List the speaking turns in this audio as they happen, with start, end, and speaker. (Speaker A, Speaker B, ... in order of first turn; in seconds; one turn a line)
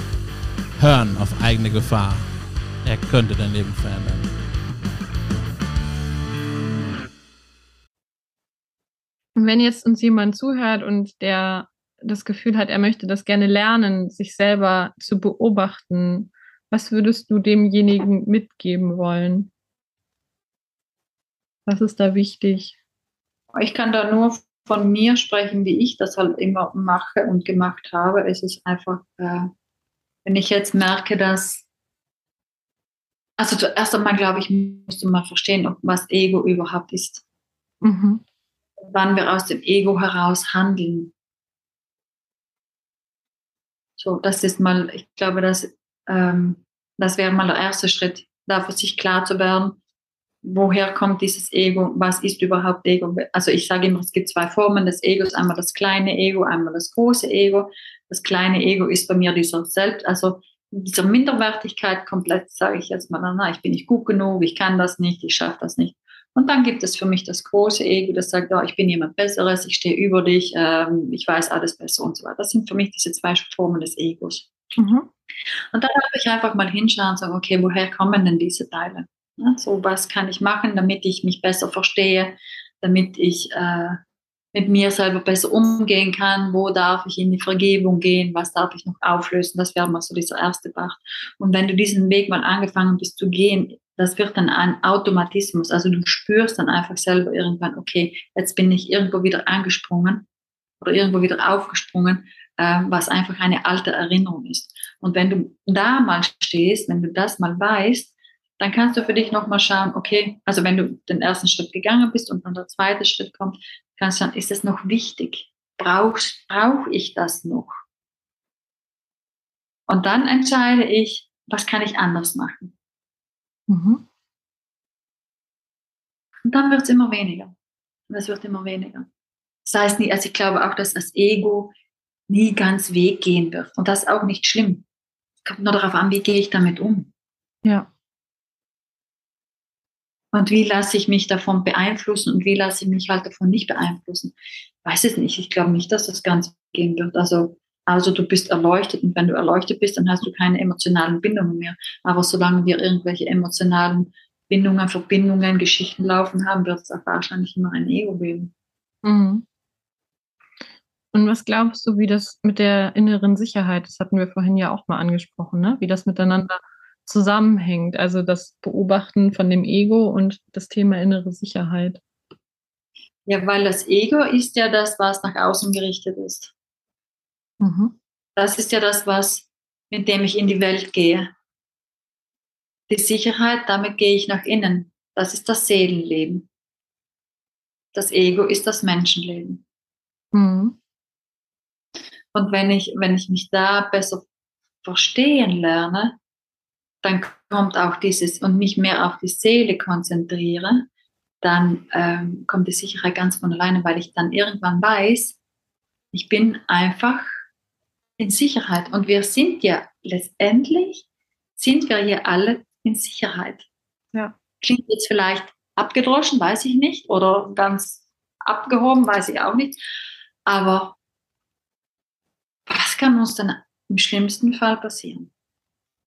Speaker A: 0.8-2.3
Speaker A: 2.8-4.3
Speaker B: 9.3-19.5
Speaker B: 21.7-22.8
Speaker C: 23.5-29.5
Speaker C: 30.2-31.7
Speaker C: 33.4-37.2
Speaker B: 37.8-38.2
Speaker C: 38.8-41.1
Speaker C: 44.0-49.8
Speaker C: 50.4-74.5
Speaker B: 74.8-75.1
Speaker C: 75.7-84.0
Speaker C: 84.5-100.3
Speaker C: 100.8-117.8
Speaker C: 119.9-122.8
Speaker B: 123.7-124.0
Speaker C: 126.5-127.5
Speaker C: 128.1-129.1
Speaker C: 129.7-131.7
Speaker C: 132.3-134.8
Speaker C: 135.4-137.1
Speaker B: 137.6-137.9
Speaker C: 140.3-144.3
Speaker C: 144.8-158.5
Speaker B: 159.0-159.4
Speaker B: 161.1-172.0
Speaker C: 173.3-176.5
Speaker B: 177.6-177.9
Speaker C: 178.4-181.3
Speaker C: 182.9-186.5
Speaker C: 187.9-189.6
Speaker B: 190.3-190.8
Speaker C: 192.3-194.2
Speaker C: 194.8-196.2
Speaker C: 197.0-200.9
Speaker C: 201.4-205.4
Speaker C: 206.1-207.3
Speaker C: 208.2-211.1
Speaker C: 211.6-213.7
Speaker C: 214.6-219.8
Speaker C: 220.5-221.0
Speaker C: 222.7-225.3